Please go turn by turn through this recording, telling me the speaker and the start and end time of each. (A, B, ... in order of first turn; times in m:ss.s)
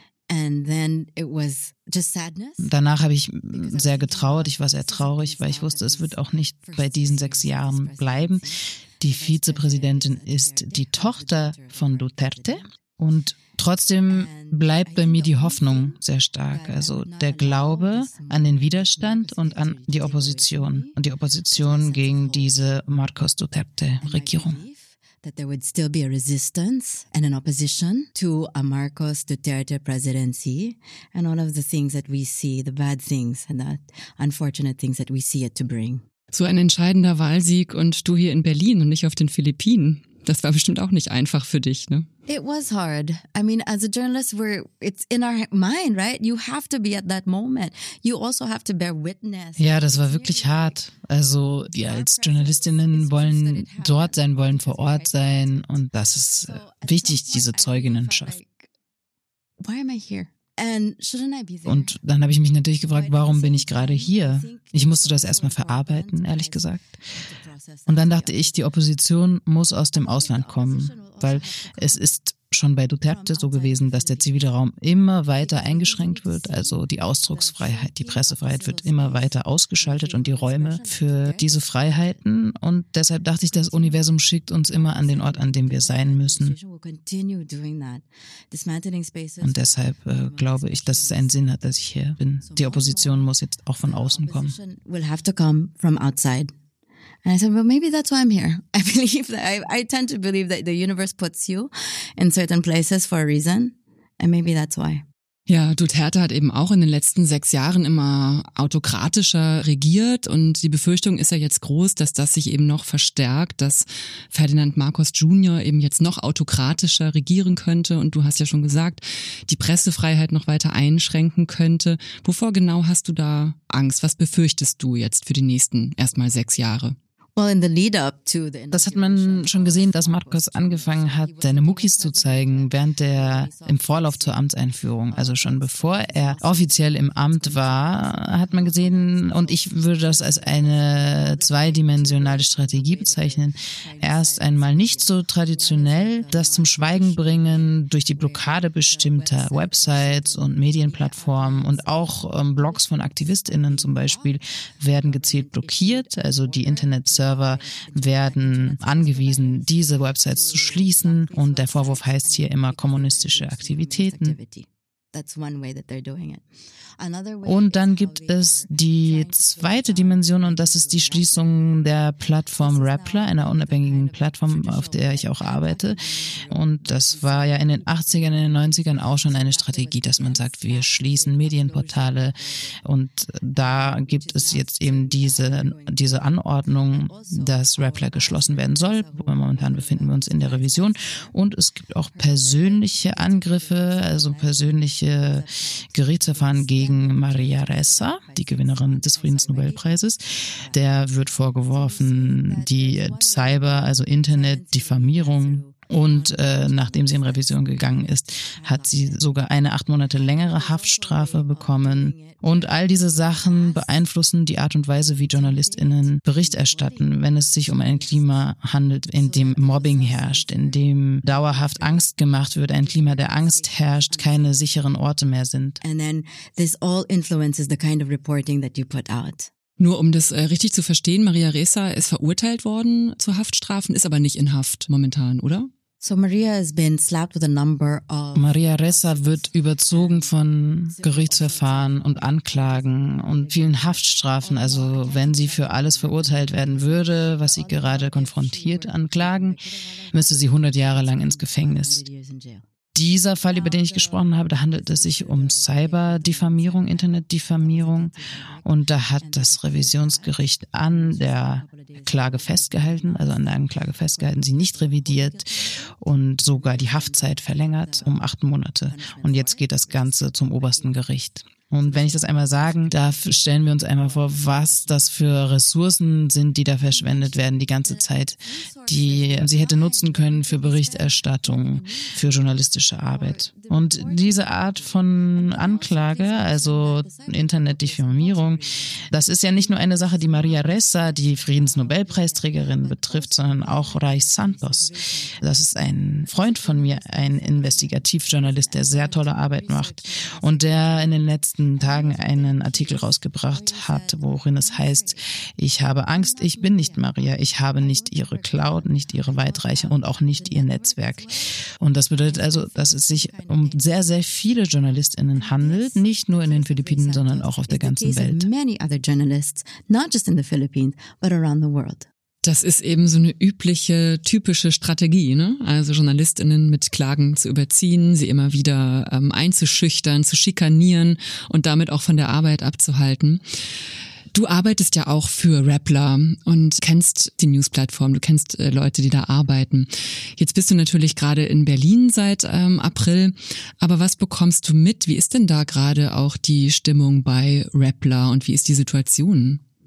0:00.3-0:02.7 A
0:02.6-0:08.4 B
0:03.5-0:12.7 A
0:09.0-0:24.6 B
0:14.1-0:16.0 A
0:16.5-0:20.9 A
0:21.5-0:22.5 A
0:24.0-0:36.0 A
0:36.3-0:42.1 C
0:42.3-0:50.8 A
0:49.6-0:58.4 B
0:51.7-0:58.7 A
0:59.6-1:02.0 A
1:01.6-1:06.8 B
1:02.9-1:08.7 A
1:07.9-1:26.6 B
1:09.9-1:12.0 A
1:13.0-1:14.4 A
1:15.3-1:22.2 A
1:23.3-1:24.1 A
1:24.7-1:31.6 A
1:29.4-1:34.6 B
1:32.4-1:36.5 A
1:37.2-1:45.0 A
1:45.5-2:07.0 C
2:07.4-2:14.4 A
2:08.7-2:44.4 B
2:15.1-2:34.4 A
2:34.9-2:46.4 A
2:47.0-3:02.8 A
2:47.4-3:45.8 B
3:03.5-3:11.3 A
3:12.1-3:20.8 A
3:21.6-3:29.3 A
3:30.1-3:34.1 A
3:35.0-3:38.3 A
3:39.1-3:44.6 A
3:45.8-3:49.5 A
3:49.8-3:55.7 C
3:56.0-4:12.6 A
3:58.3-4:09.6 B
4:10.1-4:12.0 B
4:12.9-4:25.5 B
4:13.5-4:25.9 A
4:26.0-5:18.5 B
4:26.5-4:28.3 A
4:28.9-4:31.0 A
4:31.7-4:35.2 A
4:36.8-4:55.5 A
4:56.1-5:05.2 A
5:06.1-5:11.5 A
5:12.1-5:14.2 A
5:15.3-5:22.1 A
5:22.4-5:33.4 C
5:34.3-5:49.6 C